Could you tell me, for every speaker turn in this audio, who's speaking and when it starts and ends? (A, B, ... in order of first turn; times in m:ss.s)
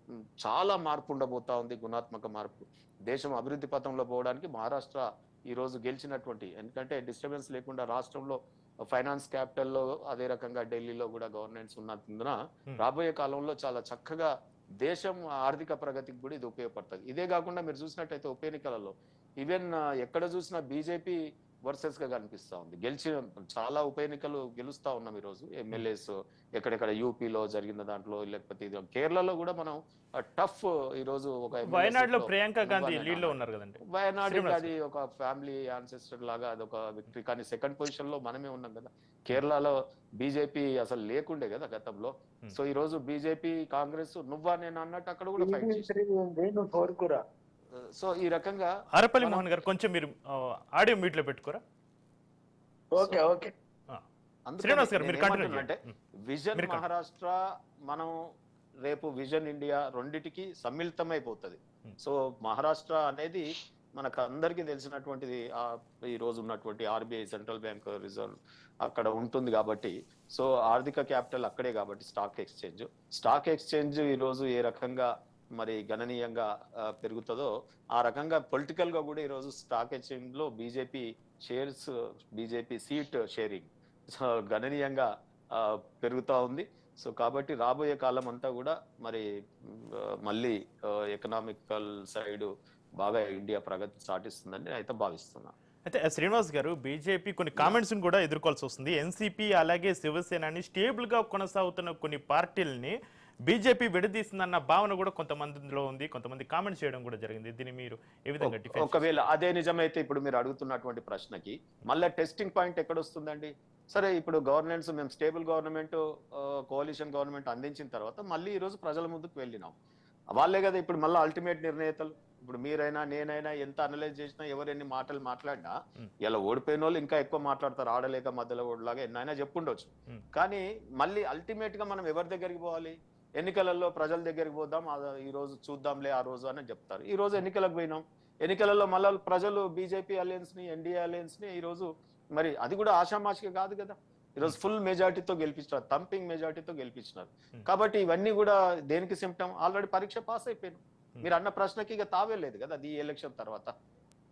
0:00.4-0:45.9 A
0:31.7-0:34.7 B
0:45.4-0:47.2 C
0:47.8-0:49.5 A
0:48.9-0:51.6 B
0:52.9-0:53.5 C
0:54.5-0:57.4 A
0:54.6-0:55.9 B
0:56.6-0:56.8 B
0:57.9-0:58.1 A
0:58.8-1:03.4 A
1:04.0-1:35.5 A
1:35.9-1:43.0 B
1:43.5-1:49.3 B
1:48.4-1:59.7 A
2:00.4-2:33.7 A